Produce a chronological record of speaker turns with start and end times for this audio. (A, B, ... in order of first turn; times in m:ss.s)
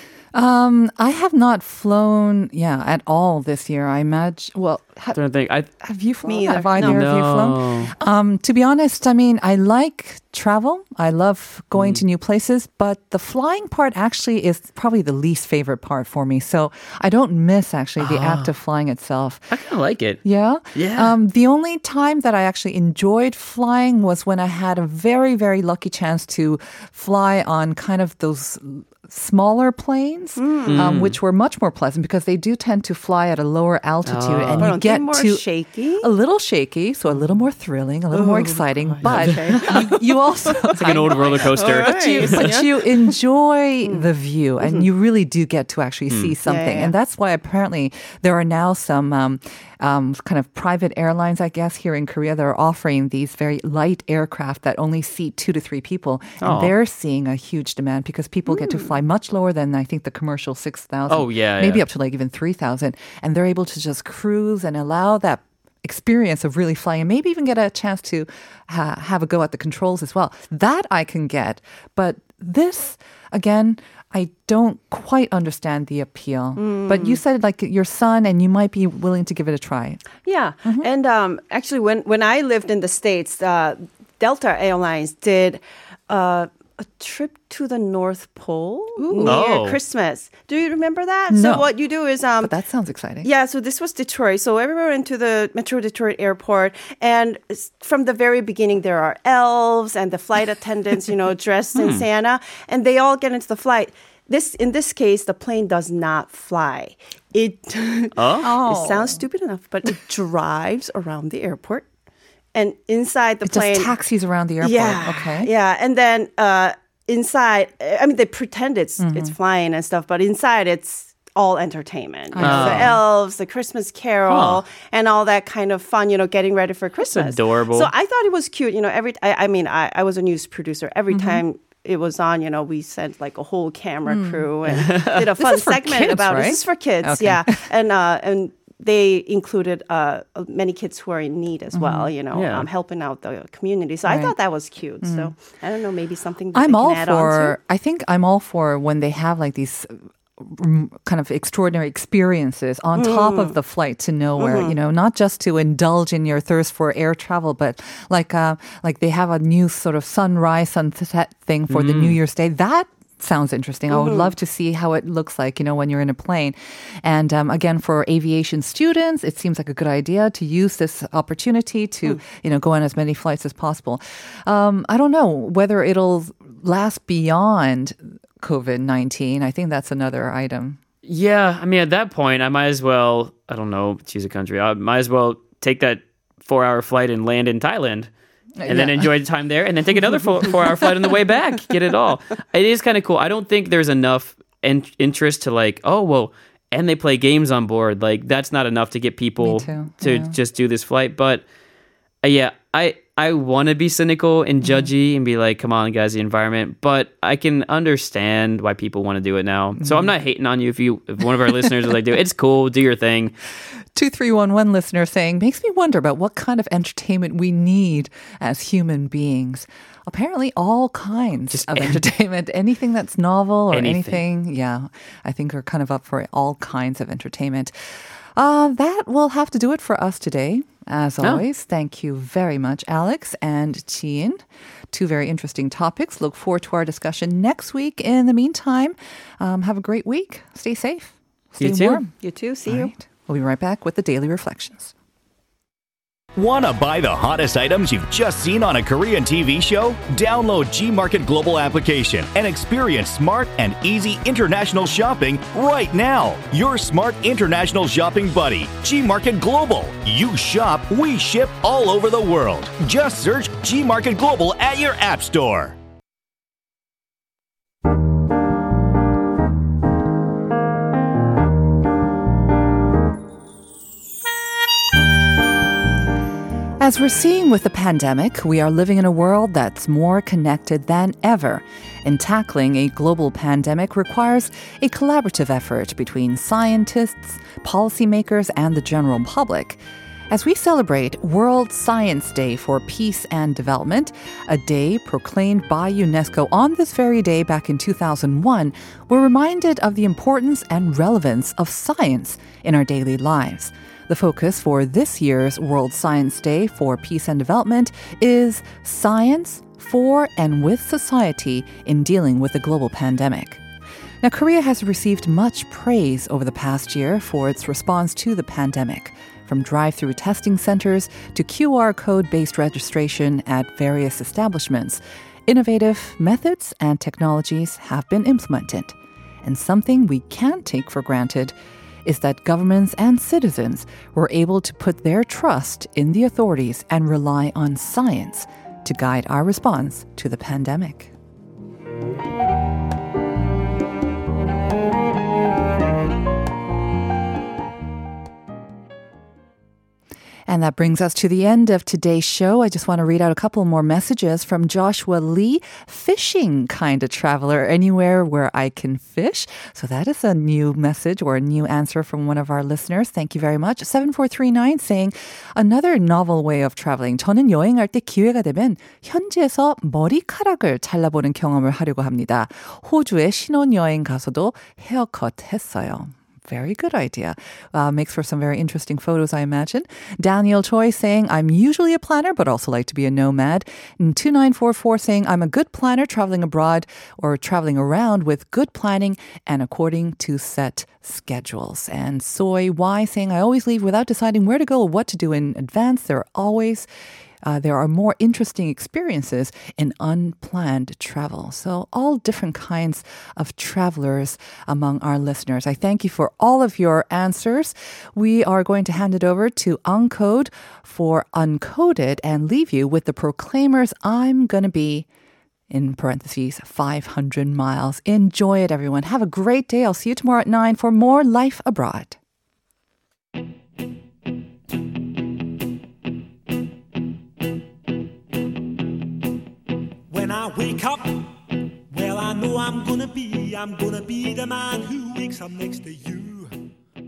0:00.3-0:05.2 A
0:05.1-0:05.7 B
0:05.8-0:19.5 A
0:06.2-0:07.0 C
0:06.8-0:07.9 B
0:11.7-0:12.0 B
0:18.0-0:18.5 B
0:19.5-0:20.2 B
0:20.2-0:35.4 A
0:20.7-0:21.1 B
0:30.4-0:30.9 C
0:30.6-0:31.2 B
0:34.0-0:34.8 B
0:34.6-0:36.1 C
0:36.0-1:20.0 A
0:38.1-0:42.9 C
0:38.9-0:39.7 B
0:40.7-0:42.6 B
0:43.8-0:44.1 C
0:44.6-0:44.9 C
0:46.4-0:46.9 C
0:56.4-0:56.7 B
0:58.5-0:58.9 C
1:01.1-1:01.8 B
1:16.6-1:17.2 C
1:20.2-1:32.5 C
1:29.0-1:29.4 A
1:29.2-1:29.8 B
1:31.3-1:31.7 A
1:32.4-1:33.3 A
1:33.2-1:51.9 C
1:41.8-1:42.0 B
1:48.2-1:48.5 B
1:48.4-1:49.2 A
1:52.5-1:53.9 C
1:53.4-1:55.5 A
1:54.6-2:27.6 C
1:59.0-1:59.3 A
2:02.3-2:03.0 A
2:02.4-2:02.9 B
2:04.3-2:04.6 B
2:07.1-2:07.9 B
2:11.1-2:11.4 A
2:14.1-2:14.5 A
2:14.7-2:15.2 B
2:15.4-2:17.5 A
2:21.7-2:22.1 A
2:22.3-2:22.7 B
2:24.0-2:24.3 A
2:25.0-2:25.3 A
2:26.5-3:00.8 A
2:33.0-2:33.6 C
2:34.4-2:34.7 C
2:41.7-2:42.2 B
2:43.9-2:44.3 C
3:01.0-3:08.1 B
3:08.6-3:09.1 A
3:08.6-3:21.4 B
3:19.4-3:20.3 A
3:22.2-3:33.3 B
3:29.8-3:30.1 A
3:33.9-3:47.7 A
3:41.5-3:42.0 B
3:43.7-3:44.2 B
3:48.3-4:02.1 A
4:01.6-4:02.0 B
4:02.2-4:02.9 C
4:02.6-4:04.9 A
4:06.4-4:25.8 D
4:36.8-5:13.6 A
5:14.2-5:41.1 A
5:50.5-6:36.9 A
6:37.4-6:55.0 A
6:55.7-7:02.2 A
7:10.1-7:11.3 E
7:11.9-7:16.5 E